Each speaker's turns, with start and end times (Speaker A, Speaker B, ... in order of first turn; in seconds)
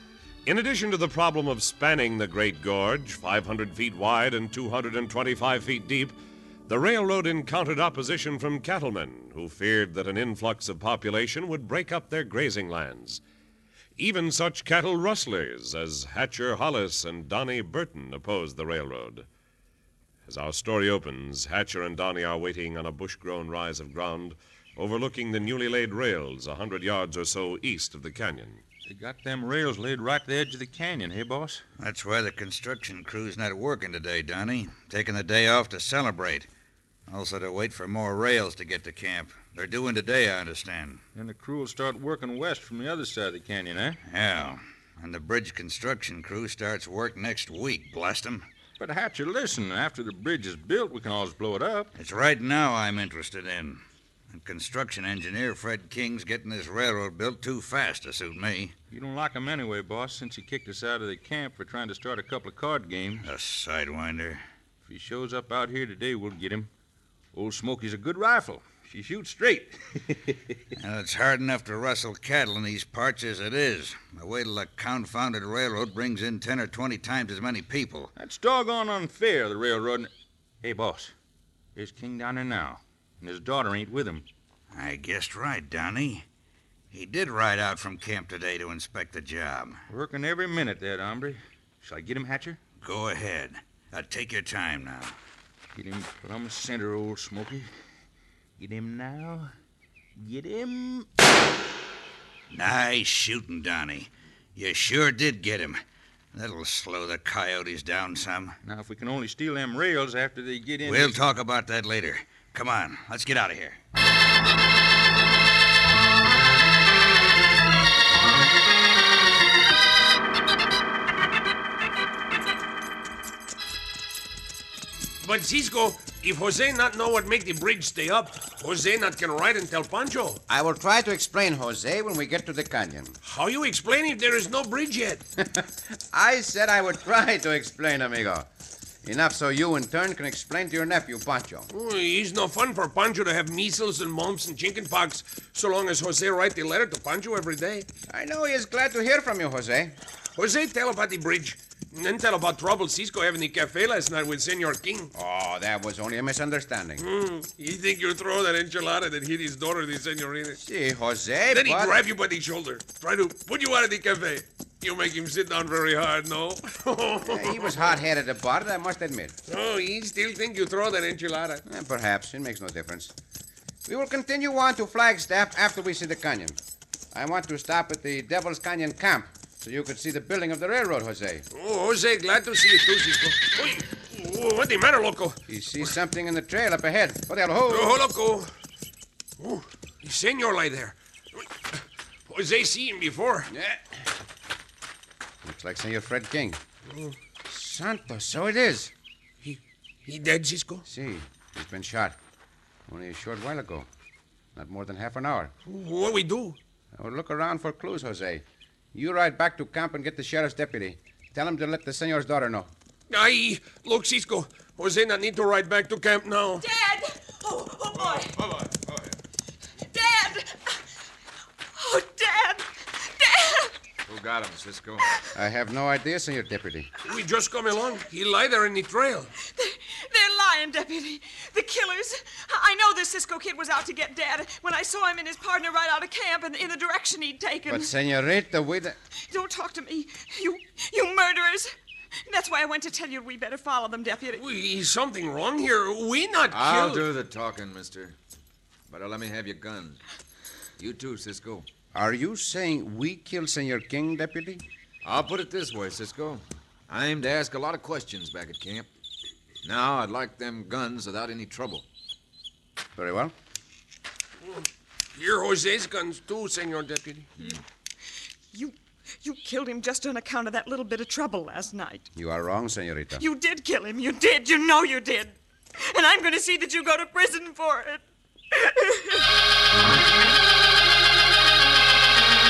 Speaker A: 0.5-6.1, 6.7-13.2, 14.0-19.2, 20.3-28.6
Speaker B: 28.9-31.6, 41.1-44.0, 48.8-51.9, 58.9-63.2, 64.8-66.7, 67.3-70.5, 78.2-80.1, 80.6-81.1, 81.7-84.2, 89.9-92.6, 95.7-97.7, 98.6-99.5, 100.2-101.1, 108.6-111.2
Speaker C: 31.8-36.5, 37.1-41.0, 44.0-48.5, 52.0-58.7, 63.2-64.4, 70.7-78.1, 84.7-86.2, 86.9-89.8, 92.8-95.1, 102.5-105.8, 106.3-108.5, 110.8-113.8
Speaker D: 125.2-130.4, 133.2-135.2, 141.7-147.9, 150.3-155.1, 157.0-160.6, 161.5-167.8, 169.5-171.6, 181.5-185.9, 187.7-188.5, 189.4-193.5, 196.9-197.1, 199.4-200.8, 205.7-206.6, 213.1-216.6, 227.0-229.3, 244.3-247.1, 264.5-267.3
Speaker E: 130.5-133.2, 135.4-138.5, 139.0-141.7, 148.1-149.9, 155.1-157.0, 160.6-162.0, 167.2-169.3, 171.7-173.1, 173.8-176.6, 177.1-181.4, 185.5-188.0, 193.5-193.8, 195.4-196.6, 197.4-198.9, 200.8-202.2, 202.9-203.9, 204.6-205.5, 206.9-212.7, 225.3-226.9, 237.7-238.9, 251.9-254.6, 262.9-263.3, 272.1-273.2
Speaker F: 216.6-218.4, 219.8-220.8, 221.7-223.7, 229.4-237.9, 239.3-241.7, 242.2-244.4, 268.5-272.1, 273.2-279.3
Speaker G: 218.4-219.1, 224.1-225.0, 246.5-248.2, 248.9-250.0, 250.8-251.7, 255.0-258.9, 259.6-261.8